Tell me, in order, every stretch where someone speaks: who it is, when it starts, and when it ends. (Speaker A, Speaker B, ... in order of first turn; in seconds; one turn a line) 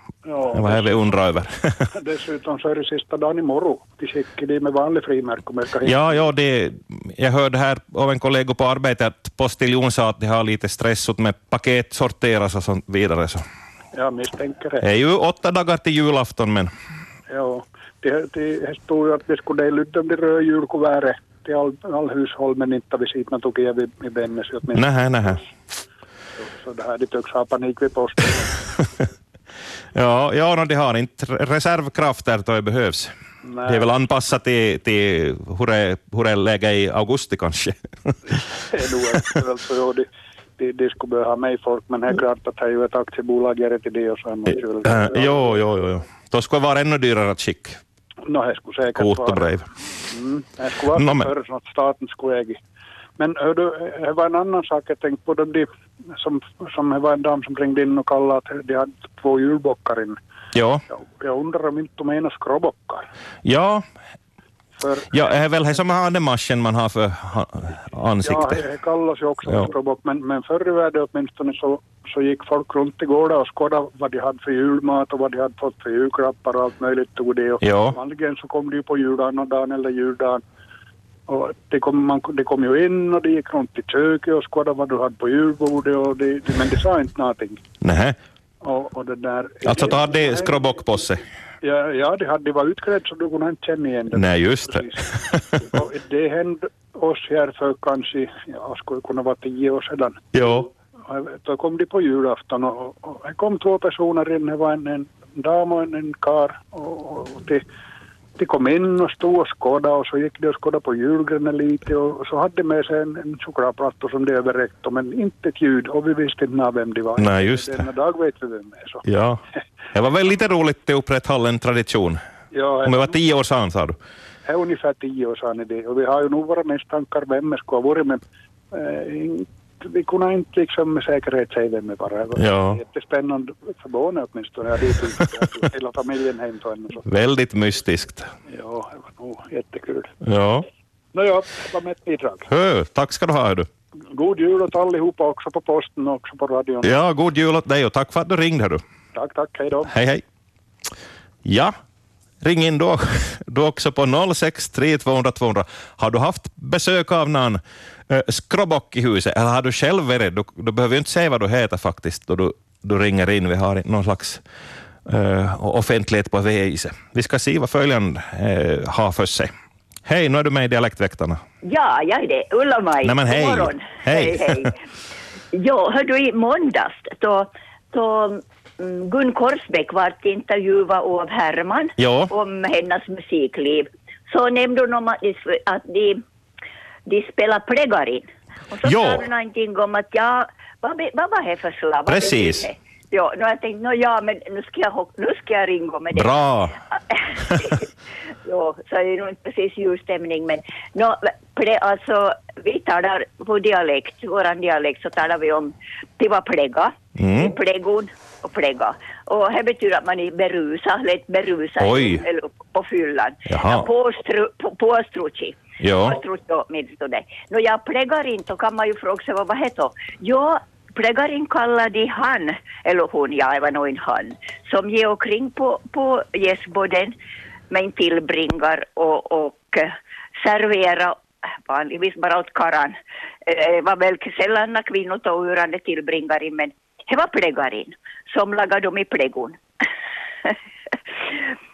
Speaker A: 0.2-1.2
Speaker B: 0.5-1.9
Speaker A: 1.9-6.2
Speaker B: 5.8-13.4
Speaker A: 13.9-14.8
Speaker B: 14.8-16.7
Speaker A: 17.3-25.4
Speaker B: 24.7-25.4
Speaker A: 26.4-28.6
Speaker B: 29.9-33.1
Speaker A: 33.4-33.9
Speaker B: 33.6-38.1
Speaker A: 38.3-40.1
Speaker A: 40.6-45.6
Speaker B: 44.8-47.8
Speaker A: 48.2-52.6
Speaker B: 49.0-49.7
Speaker B: 51.0-51.3
Speaker A: 53.2-60.2
Speaker B: 60.5-60.8
Speaker A: 60.9-63.1
Speaker B: 63.4-63.8
Speaker A: 64.8-65.3
Speaker B: 65.1-68.6
Speaker A: 68.2-80.4
Speaker B: 77.6-78.0
Speaker A: 81.3-87.6
Speaker B: 87.8-88.2
Speaker A: 88.6-90.8
Speaker B: 89.6-91.2
Speaker A: 91.6-100.2
Speaker B: 94.1-95.6
Speaker B: 100.3-100.7
Speaker A: 101.1-107.6
Speaker A: 108.4-119.0
Speaker B: 117.2-117.8
Speaker B: 119.0-119.4
Speaker B: 119.9-122.2
Speaker A: 122.5-123.2
Speaker B: 122.8-124.0
Speaker A: 124.4-128.2
Speaker A: 128.7-137.0
Speaker B: 132.3-132.8
Speaker B: 137.1-138.3
Speaker A: 138.5-140.1
Speaker B: 140.2-140.6
Speaker A: 141.1-142.5
Speaker B: 142.5-143.7
Speaker A: 144.1-146.9
Speaker B: 146.8-148.8
Speaker A: 149.1-149.9
Speaker B: 149.9-150.2
Speaker B: 151.4-151.7
Speaker B: 152.4-164.4
Speaker B: 165.1-169.5
Speaker B: 170.1-171.4
Speaker C: 171.6-174.8
Speaker B: 173.0-174.7
Speaker C: 175.5-186.2
Speaker B: 182.0-182.3
Speaker C: 187.1-196.3
Speaker B: 188.8-189.2
Speaker B: 192.1-192.7
Speaker B: 196.1-196.7
Speaker C: 197.1-197.9
Speaker C: 198.4-227.2
Speaker B: 207.2-207.5
Speaker B: 211.8-212.2
Speaker B: 213.5-213.9
Speaker B: 215.8-216.2
Speaker C: 227.7-239.6